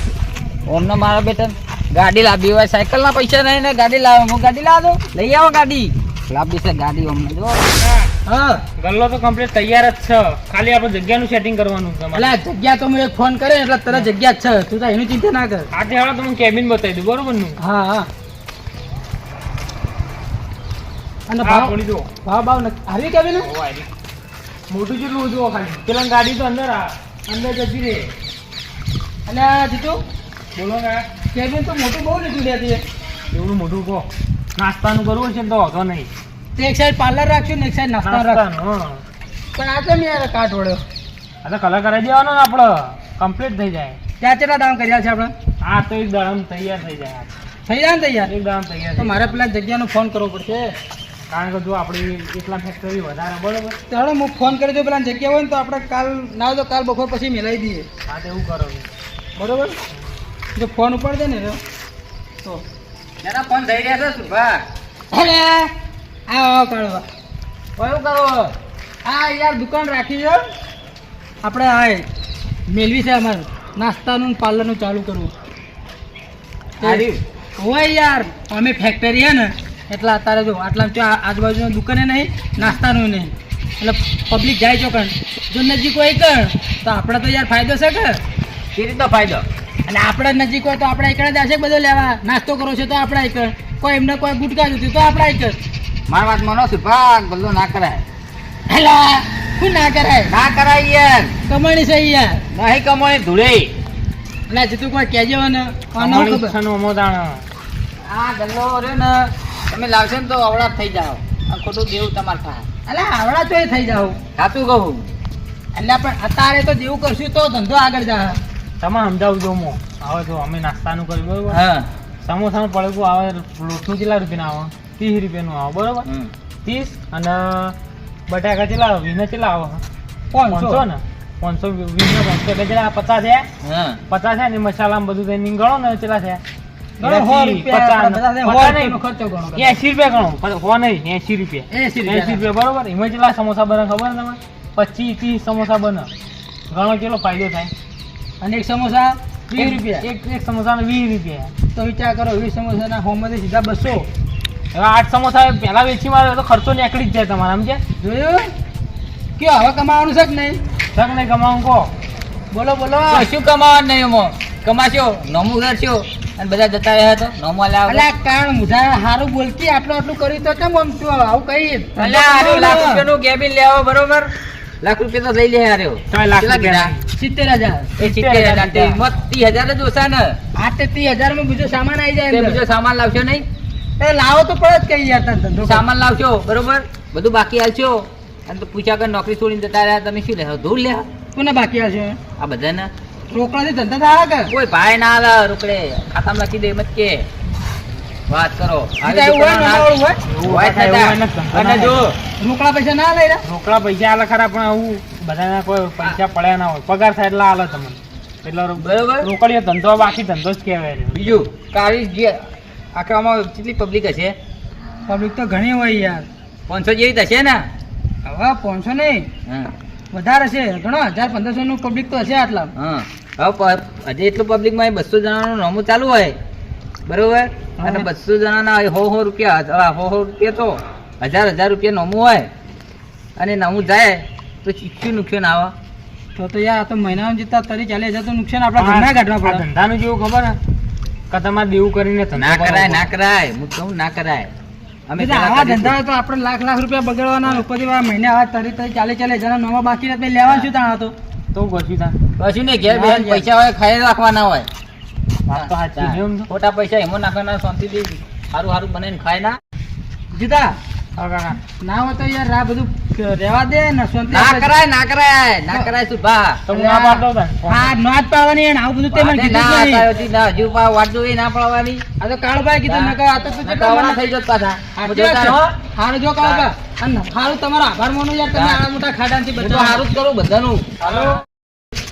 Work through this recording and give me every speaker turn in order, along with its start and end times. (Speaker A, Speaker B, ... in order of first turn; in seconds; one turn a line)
Speaker A: 0.7-7.6
Speaker B: 7.8-8.1
Speaker C: 8.2-8.6
Speaker B: 8.8-12.3
Speaker C: 12.1-15.7
Speaker B: 15.7-17.6
Speaker C: 17.6-18.1
Speaker C: 21.3-23.5
Speaker B: 21.4-22.1
Speaker B: 23.4-23.9
Speaker B: 24.7-28.1
Speaker C: 29.2-30.0
Speaker B: 30.5-31.1
Speaker C: 31.3-32.8
Speaker B: 33.3-36.1
Speaker C: 36.5-38.4
Speaker B: 38.0-39.0
Speaker C: 39.5-40.8
Speaker B: 41.4-44.0
Speaker C: 44.2-45.3
Speaker B: 45.6-47.3
Speaker C: 47.7-48.3
Speaker B: 48.2-49.3
Speaker C: 49.0-50.7
Speaker B: 51.3-53.8
Speaker C: 53.9-57.9
Speaker B: 58.1-58.9
Speaker C: 59.4-59.8
Speaker C: 60.5-61.6
Speaker A: 63.2-64.6
Speaker C: 65.1-65.7
Speaker C: 66.3-67.0
Speaker A: 67.8-68.5
Speaker C: 69.0-70.4
Speaker C: 71.4-72.0
Speaker C: 72.7-75.3
Speaker C: 76.8-77.1
Speaker A: 76.8-77.2
Speaker C: 77.6-88.2
Speaker A: 88.7-89.4
Speaker C: 89.9-95.6
Speaker A: 96.1-98.0
Speaker C: 98.7-100.3
Speaker A: 100.3-101.3
Speaker C: 101.5-102.4
Speaker A: 102.5-103.7
Speaker C: 104.5-106.5
Speaker B: 106.0-107.4
Speaker A: 108.0-112.7
Speaker C: 112.9-114.2
Speaker A: 114.3-115.1
Speaker C: 115.7-118.4
Speaker B: 118.8-121.6
Speaker A: 121.5-121.9
Speaker B: 122.2-126.0
Speaker A: 126.0-126.3
Speaker B: 126.6-127.7
Speaker B: 128.3-129.8
Speaker C: 130.3-130.8
Speaker B: 130.5-133.4
Speaker A: 133.6-134.0
Speaker B: 134.1-136.4
Speaker C: 137.0-139.8
Speaker B: 137.0-139.0
Speaker B: 139.5-146.1
Speaker C: 141.7-142.4
Speaker B: 146.7-147.7
Speaker C: 148.4-150.0
Speaker B: 149.5-151.5
Speaker C: 151.7-154.1
Speaker B: 154.7-157.8
Speaker C: 158.0-158.5
Speaker C: 159.4-160.6
Speaker B: 160.9-161.9
Speaker C: 162.5-163.3
Speaker A: 163.1-168.0
Speaker C: 167.9-173.0
Speaker A: 172.0-174.3
Speaker A: 174.8-176.9
Speaker B: 176.1-177.0
Speaker C: 177.2-177.9
Speaker A: 178.0-180.4
Speaker B: 178.0-179.0
Speaker C: 180.6-182.6
Speaker A: 182.3-183.4
Speaker C: 184.0-185.8
Speaker A: 185.6-191.0
Speaker C: 191.3-192.2
Speaker A: 192.4-192.9
Speaker C: 193.3-194.5
Speaker A: 194.5-197.2
Speaker A: 198.3-199.9
Speaker C: 199.0-200.2
Speaker B: 200.3-202.0
Speaker A: 200.4-202.1
Speaker C: 202.4-203.4
Speaker B: 203.4-211.4
Speaker A: 208.8-209.3
Speaker A: 211.1-214.3
Speaker C: 215.1-216.2
Speaker A: 216.7-217.7
Speaker C: 218.2-219.3
Speaker A: 219.4-219.7
Speaker C: 220.1-222.7
Speaker A: 222.8-226.3
Speaker A: 227.1-232.5
Speaker C: 227.8-228.1
Speaker A: 233.4-235.7
Speaker C: 236.4-239.6
Speaker B: 238.8-240.5
Speaker B: 241.3-243.1
Speaker A: 242.4-244.5
Speaker A: 245.1-245.9
Speaker C: 245.2-251.1
Speaker B: 251.5-252.2
Speaker A: 252.4-254.7
Speaker C: 252.9-253.4
Speaker B: 255.5-256.5
Speaker A: 255.5-259.6
Speaker C: 260.3-260.8
Speaker B: 261.1-261.6
Speaker C: 261.8-264.7
Speaker A: 264.3-266.9
Speaker B: 266.7-268.0
Speaker C: 266.8-267.0
Speaker C: 267.7-270.1
Speaker A: 269.1-272.0
Speaker C: 272.2-274.3
Speaker A: 272.9-275.6
Speaker C: 275.0-280.0
Speaker A: 276.4-276.7
Speaker A: 278.5-278.8
Speaker A: 279.6-281.0